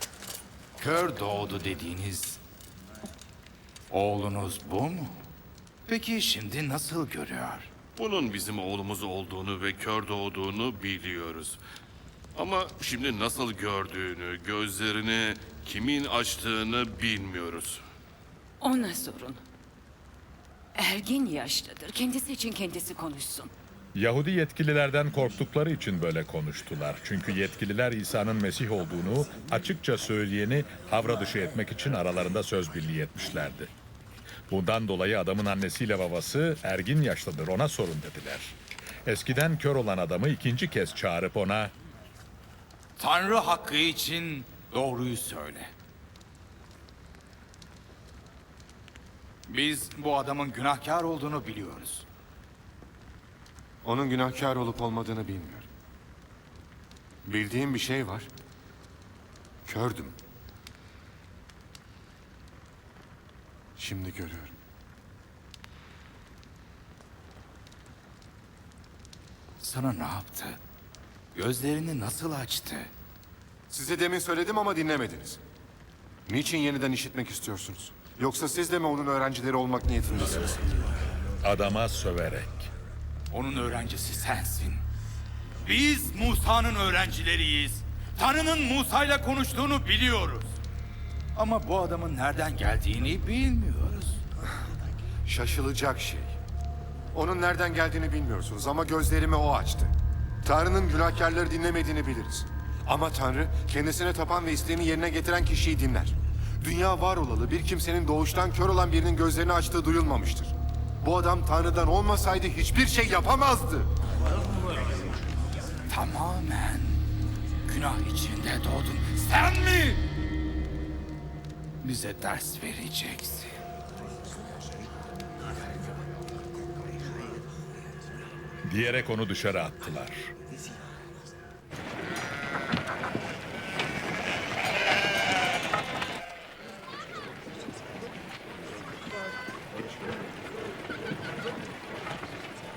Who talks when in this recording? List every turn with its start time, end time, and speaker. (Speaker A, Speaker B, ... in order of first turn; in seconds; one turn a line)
Speaker A: 0.8-2.4
Speaker A: 3.9-5.2
Speaker A: 5.8-7.7
Speaker B: 8.0-11.6
Speaker B: 12.3-17.8
Speaker C: 18.6-19.4
Speaker C: 20.8-23.5
Speaker D: 23.9-33.7
Speaker D: 34.5-41.7
Speaker A: 43.0-45.7
Speaker A: 49.5-52.0
Speaker E: 53.8-55.7
Speaker E: 57.2-58.3
Speaker E: 59.6-60.1
Speaker E: 63.8-64.5
Speaker A: 69.6-70.6
Speaker A: 71.3-72.9
Speaker E: 73.7-75.4
Speaker E: 76.2-80.6
Speaker D: 81.4-82.7
Speaker A: 83.3-84.8
Speaker A: 85.6-90.6
Speaker A: 91.3-94.2
Speaker E: 95.2-96.3
Speaker E: 97.1-99.9
Speaker E: 100.4-113.9
Speaker A: 115.9-117.0
Speaker A: 117.7-120.0
Speaker A: 121.8-123.5
Speaker D: 128.7-130.3